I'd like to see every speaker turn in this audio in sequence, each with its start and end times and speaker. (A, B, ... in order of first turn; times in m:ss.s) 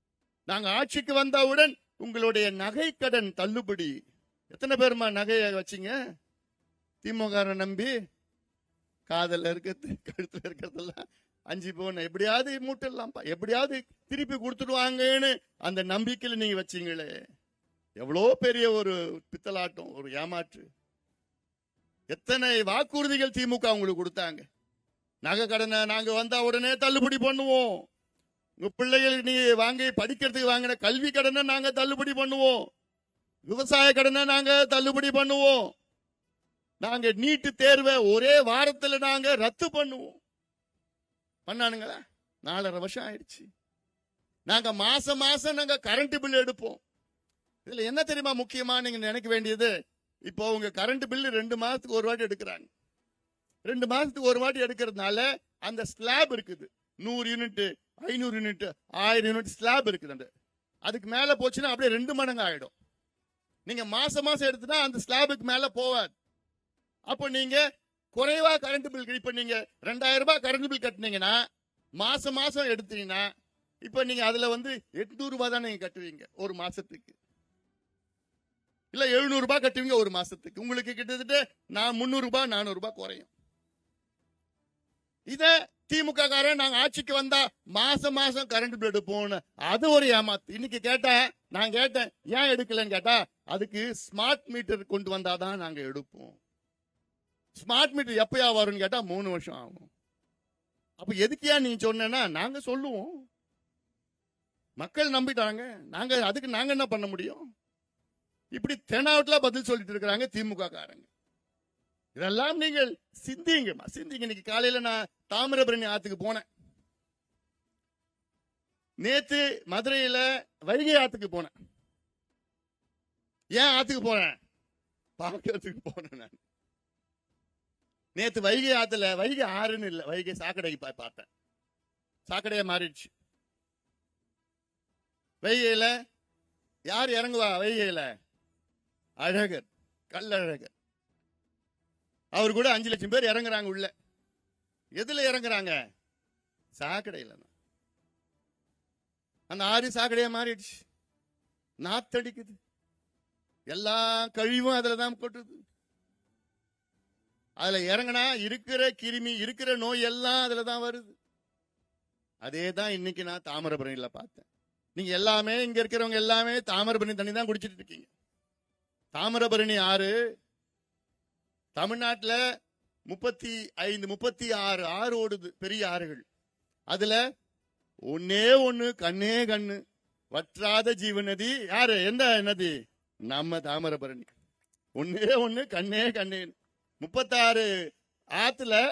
0:00.5-0:03.9 A
0:04.5-0:06.0 A
0:07.0-0:07.9 A
0:09.1-0:17.1 A
0:18.0-0:20.7 A
0:22.1-0:24.5 A
0:25.2-0:27.8 A
0:28.6-0:32.6 A
0:33.5-0:35.7 A
0:36.8-0:40.2 A
0:41.5-0:43.5 A
0:44.5-0:46.8 A
0:47.7-0:49.7 A
0:50.3-0:52.7 A
0:53.7-1:00.3 A
1:00.9-1:02.7 A
1:03.7-1:06.1 A
1:07.1-1:07.6 A
1:08.2-1:11.4 A
1:12.0-1:13.3 A
1:13.8-1:17.2 A
1:18.9-1:23.3 A
1:25.3-1:36.4 A
1:37.6-1:39.9 A
1:41.0-1:43.1 A
1:44.8-1:47.4 A
1:48.6-1:51.1 A
1:52.2-1:56.4 A
1:59.0-2:01.5 A
2:03.6-2:04.4 A
2:05.2-2:06.4 A
2:08.2-2:11.3 A
2:12.3-2:13.1 A
2:15.4-2:15.9 A
2:16.9-2:18.1 A
2:19.2-2:20.7 A
2:22.4-2:23.9 A
2:25.0-2:25.8 A
2:26.8-2:27.5 A
2:29.5-2:30.8 A
2:31.8-2:32.6 A
2:33.7-2:35.6 A
2:37.6-2:41.2 A
2:42.4-2:48.1 A
2:49.2-2:50.1 A
2:51.8-2:52.4 A
2:53.1-2:56.2 A
2:56.9-2:57.2 A
2:58.1-2:59.8 A
3:00.3-3:02.7 A
3:03.3-3:04.3 A
3:05.0-3:07.7 A
3:08.4-3:08.8 A